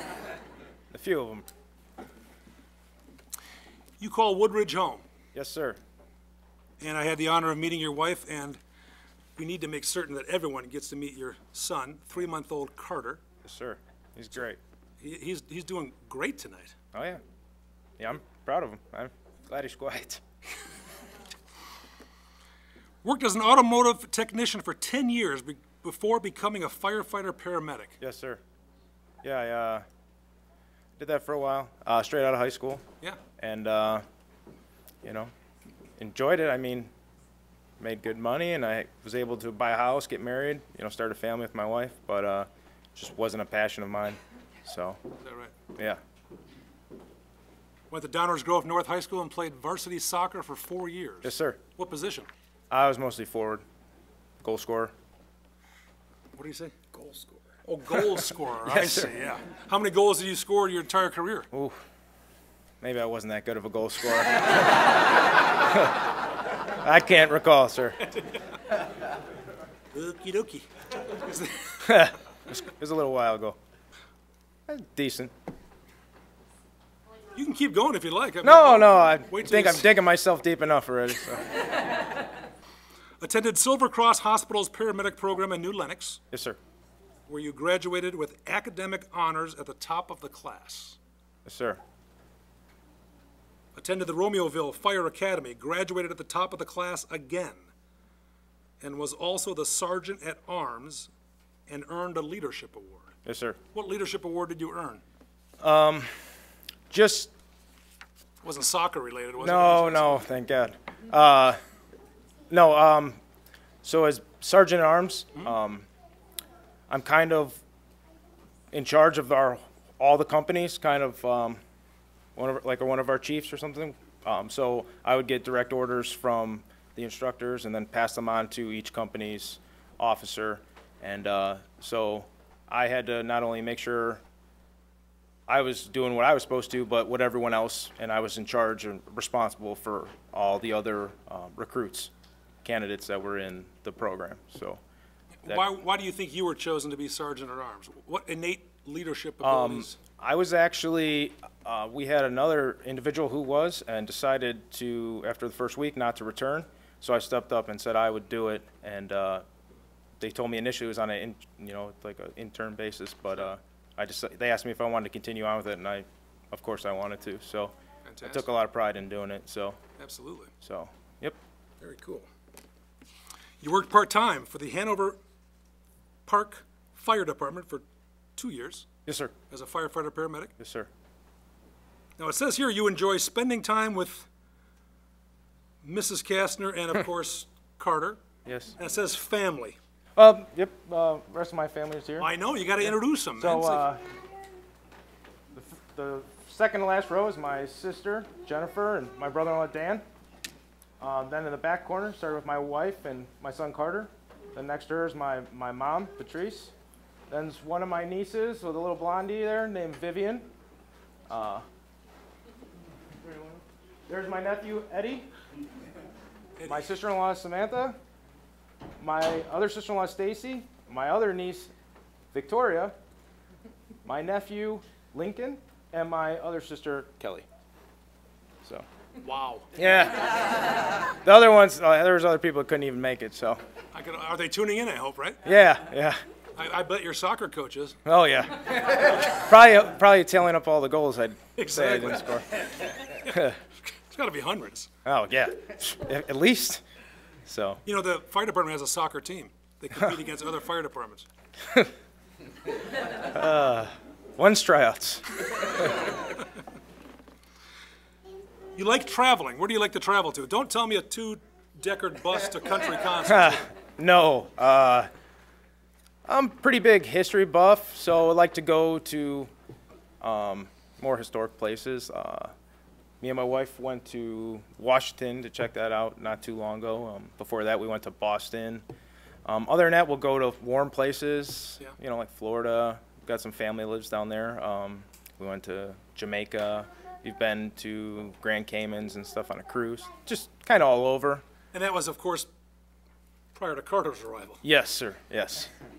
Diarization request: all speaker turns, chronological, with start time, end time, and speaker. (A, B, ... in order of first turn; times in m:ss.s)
0:00.9-0:01.5 A
0:04.0-0:05.0 B
0:05.3-0:05.8 A
0:06.8-0:08.6 B
0:09.4-0:13.2 B
0:13.4-0:14.6 A
0:15.0-0:16.7 B
0:16.9-0:17.2 A
0:18.0-0:20.2 A
0:23.0-0:28.0 B
0:28.0-0:28.4 A
0:29.2-0:29.8 A
0:31.0-0:32.8 A
0:33.4-0:34.0 A
0:35.0-0:35.3 A
0:36.0-0:36.9 A
0:37.8-0:45.0 A
0:45.2-0:45.5 B
0:47.9-0:52.3 B
0:51.2-0:51.6 A
0:52.7-0:53.6 A
0:54.4-0:54.9 A
0:56.3-1:01.5 B
0:58.6-0:59.1 A
1:01.5-1:01.8 A
1:02.8-1:04.8 A
1:05.6-1:05.9 A
1:06.8-1:08.0 A
1:09.9-1:11.8 B
1:11.8-1:13.6 A
1:14.7-1:15.3 A
1:17.3-1:19.9 B
1:18.4-1:21.5 A
1:23.2-1:26.2 B
1:26.3-1:26.6 A
1:27.3-1:31.0 B
1:31.4-1:31.8 A
1:33.7-1:37.7 B
1:38.8-1:41.1 B
1:41.7-1:43.1 B
1:43.2-1:43.6 A
1:43.7-1:45.0 B
1:45.6-1:46.1 A
1:46.9-1:47.3 A
1:48.4-1:50.2 B
1:49.4-1:51.6 A
1:52.5-1:53.2 A
1:53.8-1:55.8 A
1:56.9-1:57.6 A
1:58.7-2:01.6 A
2:02.4-2:14.2 A
2:15.5-2:22.1 A
2:22.6-2:24.8 A
2:25.4-2:30.0 B
2:29.4-2:39.4 A
2:40.2-2:49.8 A
2:48.0-2:48.5 B
2:50.0-2:50.5 B
2:50.6-2:51.4 A
2:51.8-2:52.3 B
2:53.6-2:55.2 B
2:56.2-2:57.8 B
2:58.4-2:58.8 B
2:59.0-2:59.3 A
2:59.5-3:00.5 B
3:00.6-3:00.9 A
3:02.2-3:04.3 B
3:05.8-3:08.2 B
3:08.4-3:08.8 A
3:08.8-3:09.8 B
3:10.2-3:12.3 A
3:12.2-3:13.9 B
3:12.8-3:14.0 A
3:15.5-3:20.0 A
3:21.0-3:26.7 A
3:27.3-3:30.5 A
3:31.3-3:31.6 A
3:33.2-3:35.3 A
3:36.6-3:36.9 B
3:36.6-3:38.0 A
3:39.0-3:41.7 A
3:42.3-3:42.9 A
3:44.0-3:47.4 A
3:49.2-3:49.7 B
3:49.7-3:50.3 A
3:51.2-3:53.6 A
3:53.9-3:55.4 B
3:55.4-3:56.2 A
3:56.6-3:58.0 B
3:58.0-4:02.4 A
4:01.6-4:04.9 B
4:03.2-4:03.6 A
4:05.0-4:06.8 A
4:07.4-4:07.8 A
4:07.8-4:11.2 B
4:13.3-4:15.9 A
4:18.7-4:23.6 B
4:23.2-4:25.1 A
4:26.3-4:29.5 A
4:30.2-4:32.5 A
4:33.2-4:38.8 A
4:39.4-4:51.4 A
4:51.7-4:52.5 B
4:53.5-4:54.6 B
4:54.6-4:55.7 A